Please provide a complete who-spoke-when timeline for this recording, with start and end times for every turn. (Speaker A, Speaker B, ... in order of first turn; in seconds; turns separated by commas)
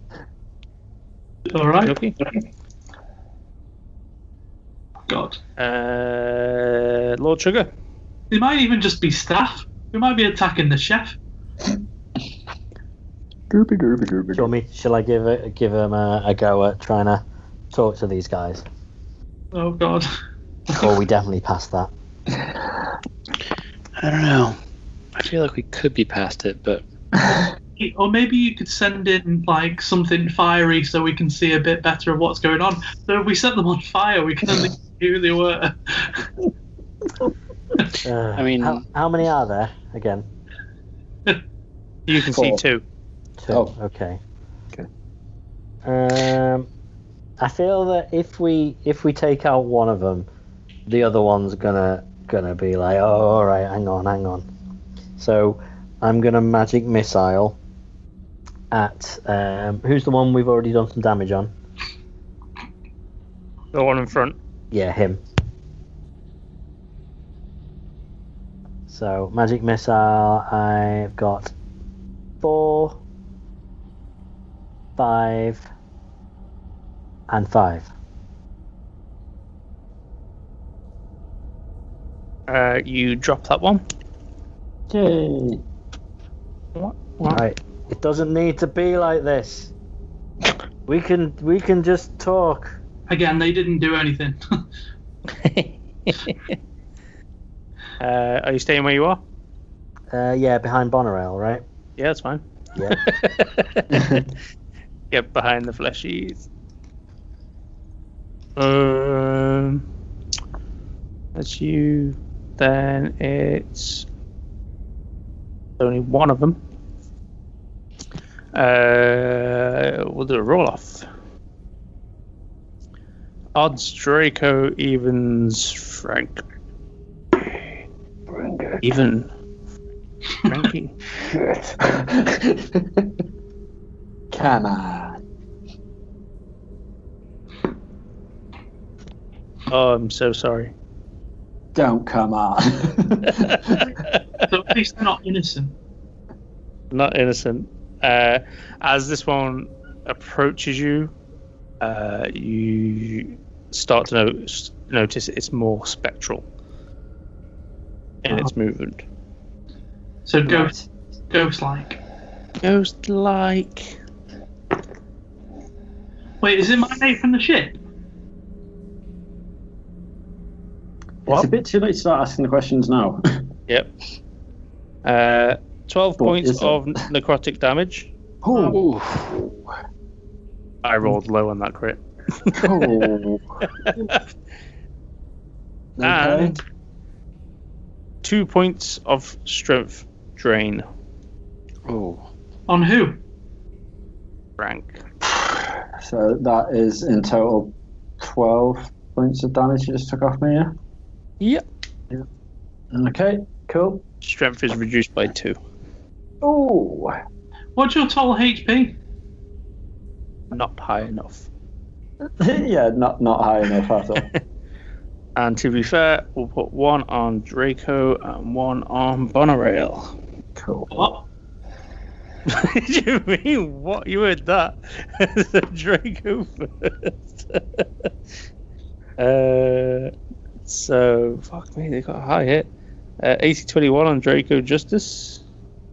Speaker A: 1.5-2.0, Speaker B: 1.8-2.2, Speaker A: 5.1-5.4, Speaker B: 5.6-7.7, Speaker A: 8.3-11.2, Speaker C: 13.5-14.5, Speaker D: 14.3-18.6, Speaker A: 19.5-20.1, Speaker D: 20.8-21.9, Speaker E: 24.0-24.6, Speaker E: 25.1-26.8, Speaker A: 27.8-36.3, Speaker D: 38.0-40.2, Speaker E: 38.4-38.8, Speaker B: 42.1-42.8, Speaker C: 42.3-42.6, Speaker D: 43.4-44.2, Speaker D: 45.8-46.7, Speaker D: 47.4-50.3, Speaker D: 50.9-54.4, Speaker D: 55.2-57.6, Speaker D: 58.7-61.5, Speaker B: 63.7-64.3, Speaker D: 64.7-65.2, Speaker D: 68.9-71.5, Speaker D: 72.4-73.0, Speaker D: 75.0-75.7, Speaker D: 77.3-77.9, Speaker B: 82.5-83.8, Speaker C: 84.9-85.6, Speaker B: 86.8-87.4, Speaker D: 87.3-89.7, Speaker D: 90.9-92.8, Speaker A: 93.1-94.4, Speaker B: 95.3-96.4, Speaker B: 98.0-99.2, Speaker D: 100.1-101.6, Speaker B: 102.0-103.9, Speaker D: 102.8-103.0, Speaker B: 105.1-106.5, Speaker B: 108.6-109.8, Speaker B: 111.3-114.0, Speaker B: 115.8-116.6, Speaker B: 118.5-121.1, Speaker B: 123.5-126.4, Speaker C: 128.3-128.8, Speaker B: 128.8-129.3, Speaker B: 130.4-130.9, Speaker C: 131.2-133.1, Speaker C: 134.3-135.2, Speaker B: 139.7-140.7, Speaker C: 141.7-143.9, Speaker B: 143.4-144.2, Speaker A: 144.5-145.7, Speaker B: 146.9-151.1, Speaker B: 151.8-156.4, Speaker B: 158.2-159.0, Speaker A: 160.2-160.7, Speaker C: 160.4-160.8, Speaker A: 161.3-162.0, Speaker B: 162.6-163.9, Speaker A: 166.4-167.8, Speaker C: 171.3-173.4, Speaker B: 175.0-178.1, Speaker C: 176.2-176.9, Speaker C: 178.4-179.6, Speaker E: 178.7-179.3, Speaker B: 180.8-183.1, Speaker C: 182.5-183.6, Speaker B: 183.8-184.2, Speaker C: 186.0-186.6, Speaker B: 186.0-186.6, Speaker B: 188.2-190.8, Speaker E: 191.8-192.2, Speaker A: 192.7-193.2, Speaker B: 194.6-195.0, Speaker C: 196.0-200.7, Speaker C: 202.9-204.0, Speaker B: 204.2-205.6, Speaker C: 206.4-207.1, Speaker A: 207.8-209.0, Speaker B: 210.5-211.5, Speaker C: 212.4-214.3, Speaker B: 215.3-220.1, Speaker C: 220.6-220.9, Speaker A: 220.9-221.2, Speaker B: 222.5-228.1, Speaker B: 229.2-230.1, Speaker B: 230.6-232.7, Speaker B: 233.2-235.4